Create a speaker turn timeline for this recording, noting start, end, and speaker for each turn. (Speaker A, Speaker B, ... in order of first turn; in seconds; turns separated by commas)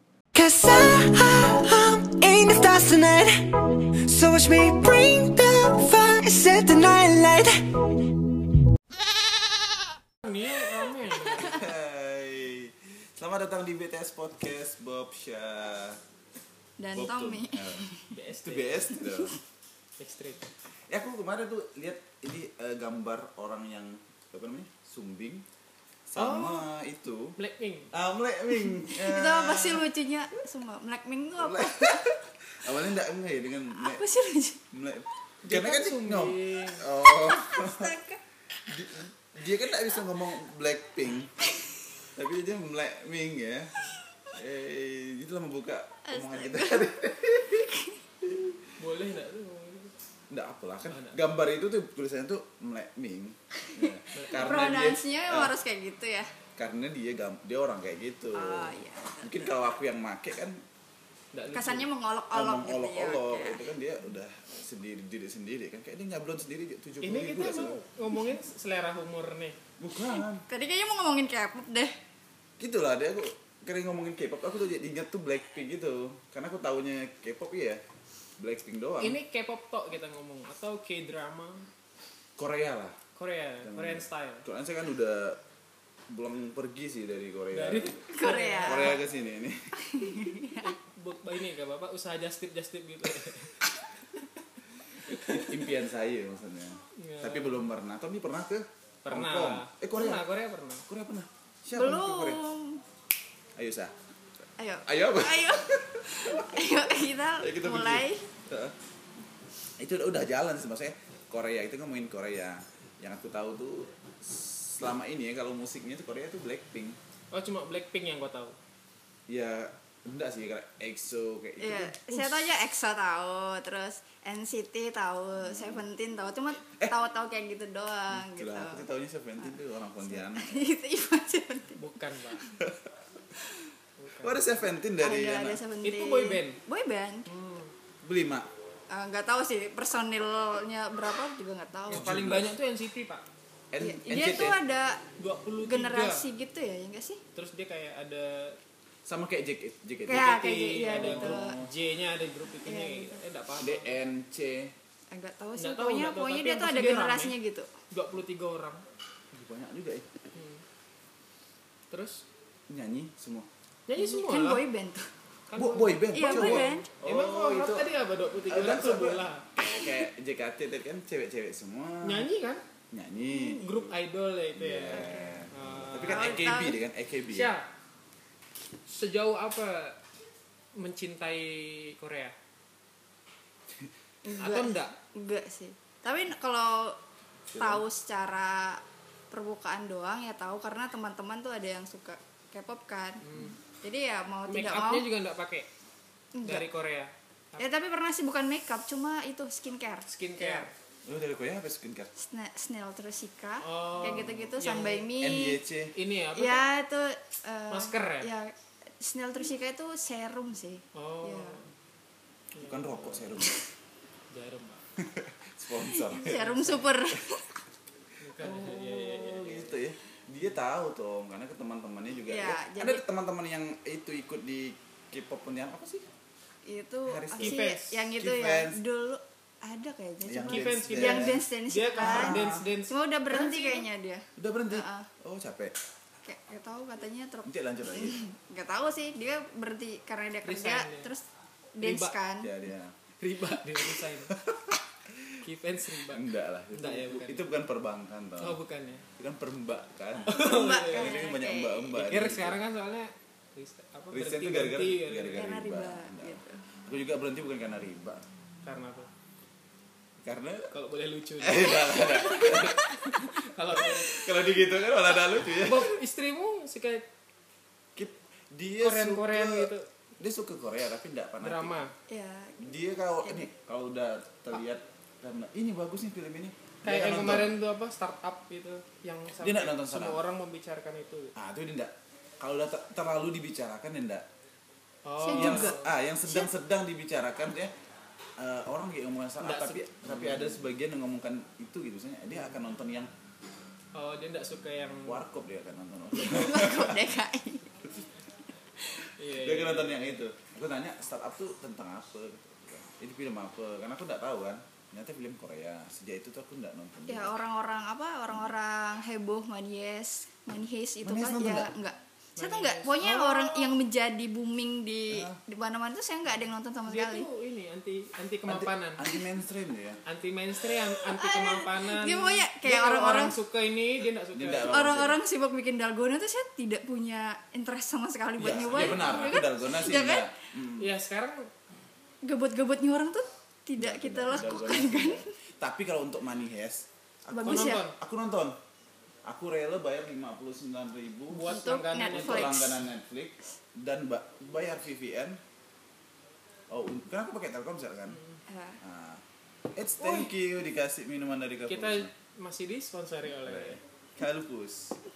Speaker A: 0.3-3.5, Speaker A: 4.1-7.8, Speaker B: 10.2-11.7, Speaker C: 11.3-16.0, Speaker D: 16.8-18.1, Speaker C: 16.9-19.4, Speaker B: 18.1-19.0, Speaker D: 19.0-19.3, Speaker B: 20.0-20.5, Speaker C: 20.9-25.4, Speaker C: 26.1-27.4, Speaker B: 26.2-26.7, Speaker B: 27.4-27.9, Speaker C: 27.9-29.9, Speaker D: 28.6-32.1, Speaker C: 31.4-34.0, Speaker D: 33.8-34.6, Speaker C: 34.7-38.0, Speaker B: 35.4-36.9, Speaker D: 37.5-38.1, Speaker C: 38.6-41.4, Speaker C: 42.1-43.8, Speaker C: 44.3-48.7, Speaker D: 46.0-46.9, Speaker D: 47.7-48.0, Speaker B: 48.8-49.9, Speaker C: 50.3-55.5, Speaker B: 50.9-51.2, Speaker D: 53.7-56.3, Speaker B: 54.1-54.9, Speaker C: 56.6-60.6, Speaker D: 58.3-59.3, Speaker B: 61.3-61.9, Speaker D: 61.5-63.6, Speaker C: 62.3-67.8, Speaker B: 67.0-69.6, Speaker C: 69.8-70.5, Speaker D: 70.5-72.0, Speaker C: 72.6-77.8, Speaker C: 78.4-79.2, Speaker B: 79.0-81.7, Speaker C: 82.4-83.0, Speaker B: 83.2-84.5, Speaker C: 83.6-85.4, Speaker C: 86.1-88.0, Speaker B: 87.5-89.0, Speaker D: 88.1-89.0, Speaker C: 88.6-89.8, Speaker D: 89.8-90.7, Speaker B: 90.6-93.6, Speaker B: 95.0-95.7, Speaker C: 95.1-100.3, Speaker B: 97.0-97.7, Speaker B: 99.0-100.9, Speaker C: 100.9-102.4, Speaker D: 101.8-102.8, Speaker C: 103.6-103.9, Speaker D: 104.6-108.2, Speaker C: 104.8-106.8, Speaker C: 107.4-108.8, Speaker C: 109.8-117.0, Speaker B: 117.3-118.6, Speaker C: 119.3-122.4, Speaker D: 121.6-128.9, Speaker C: 125.5-125.8, Speaker C: 128.1-130.6, Speaker D: 130.2-131.8, Speaker B: 131.8-132.5, Speaker B: 134.0-134.4, Speaker C: 134.2-135.6, Speaker D: 135.0-137.3, Speaker B: 135.8-136.6, Speaker B: 137.3-137.7, Speaker C: 138.0-138.5, Speaker D: 138.9-142.1, Speaker B: 141.9-143.3, Speaker C: 141.9-142.5, Speaker C: 143.7-144.6, Speaker D: 143.8-145.0, Speaker B: 145.2-146.3, Speaker D: 145.6-147.2, Speaker B: 147.3-148.6, Speaker C: 149.1-150.4, Speaker D: 150.1-151.6, Speaker B: 150.1-154.0, Speaker C: 150.9-151.7, Speaker D: 152.7-153.2, Speaker C: 153.6-154.7, Speaker D: 155.1-157.7, Speaker B: 155.6-157.4, Speaker B: 157.9-158.8, Speaker C: 159.3-160.1, Speaker B: 160.3-160.6, Speaker B: 161.9-162.3, Speaker C: 162.7-163.5, Speaker B: 163.9-164.6, Speaker D: 164.0-165.1, Speaker B: 165.5-169.5, Speaker C: 165.6-167.9, Speaker D: 166.1-166.9, Speaker C: 168.5-172.3, Speaker B: 172.0-172.6, Speaker C: 172.9-173.7, Speaker B: 173.4-176.5, Speaker C: 174.5-177.5, Speaker D: 174.9-175.4, Speaker D: 176.1-176.8, Speaker B: 177.3-177.7, Speaker B: 178.9-180.0, Speaker B: 180.8-182.3, Speaker D: 184.2-187.0, Speaker B: 184.4-184.9, Speaker C: 187.5-187.8, Speaker D: 187.6-193.2, Speaker B: 193.2-193.6, Speaker D: 193.8-195.1, Speaker B: 194.5-195.7, Speaker D: 196.3-196.7, Speaker B: 196.4-197.7, Speaker D: 197.6-200.7, Speaker B: 200.1-200.7, Speaker C: 201.1-202.1, Speaker D: 202.2-205.6, Speaker B: 203.6-205.1, Speaker C: 204.1-204.3, Speaker C: 205.2-205.9, Speaker B: 205.9-206.6, Speaker D: 206.3-211.6, Speaker B: 207.7-208.3, Speaker B: 210.9-211.7, Speaker B: 212.5-213.3, Speaker C: 212.6-213.6, Speaker B: 214.3-214.8, Speaker C: 215.0-216.5, Speaker D: 215.8-217.5, Speaker B: 216.2-216.9, Speaker B: 218.2-219.8, Speaker C: 218.4-226.1, Speaker D: 222.3-223.0, Speaker D: 226.7-235.1, Speaker C: 227.1-227.7, Speaker B: 227.4-228.1, Speaker C: 228.2-228.8, Speaker C: 230.2-231.4, Speaker B: 230.5-233.8, Speaker C: 232.0-232.6, Speaker C: 234.4-235.8, Speaker D: 236.2-241.2, Speaker C: 237.5-238.2, Speaker B: 240.4-241.1, Speaker D: 241.8-242.5, Speaker B: 241.8-242.2, Speaker C: 242.4-242.9, Speaker B: 243.2-244.3, Speaker C: 244.3-245.4, Speaker B: 245.4-247.4, Speaker C: 246.1-248.6, Speaker B: 248.4-249.1, Speaker C: 249.2-252.6, Speaker B: 250.3-251.2, Speaker D: 250.4-251.9, Speaker B: 251.9-255.5, Speaker C: 254.1-258.2, Speaker D: 255.3-256.6, Speaker B: 258.6-259.1, Speaker C: 260.2-260.7, Speaker B: 260.7-264.2, Speaker C: 261.4-265.9, Speaker B: 265.6-267.1, Speaker C: 267.9-271.8, Speaker B: 268.8-269.9, Speaker B: 271.4-271.9, Speaker D: 272.1-273.5, Speaker C: 272.6-277.5, Speaker B: 276.9-281.3, Speaker C: 279.4-280.2, Speaker C: 281.4-284.3, Speaker B: 285.1-285.9, Speaker D: 285.2-286.5, Speaker C: 285.3-287.7, Speaker C: 288.4-293.1, Speaker B: 289.4-290.6, Speaker B: 292.3-292.6, Speaker B: 293.9-295.2, Speaker C: 295.1-297.1, Speaker D: 296.1-297.8, Speaker B: 299.2-300.2, Speaker C: 299.3-307.3, Speaker D: 307.1-317.3, Speaker C: 311.0-311.7, Speaker B: 312.4-313.8, Speaker C: 315.1-315.4, Speaker B: 316.9-319.1, Speaker C: 318.5-320.0, Speaker B: 320.1-324.9, Speaker D: 321.0-323.4, Speaker C: 324.3-325.2, Speaker D: 324.7-330.3, Speaker C: 328.4-330.9, Speaker B: 328.5-329.4, Speaker B: 330.8-331.5, Speaker D: 332.2-335.3, Speaker C: 333.8-338.6, Speaker D: 337.3-337.9, Speaker B: 337.4-337.9, Speaker C: 339.3-345.4, Speaker B: 341.3-342.6, Speaker D: 341.4-342.8, Speaker C: 346.7-348.2, Speaker B: 348.1-348.4, Speaker D: 348.5-348.8, Speaker C: 348.8-349.2, Speaker C: 349.8-352.1, Speaker B: 350.0-350.3, Speaker B: 351.7-353.8, Speaker C: 353.4-355.0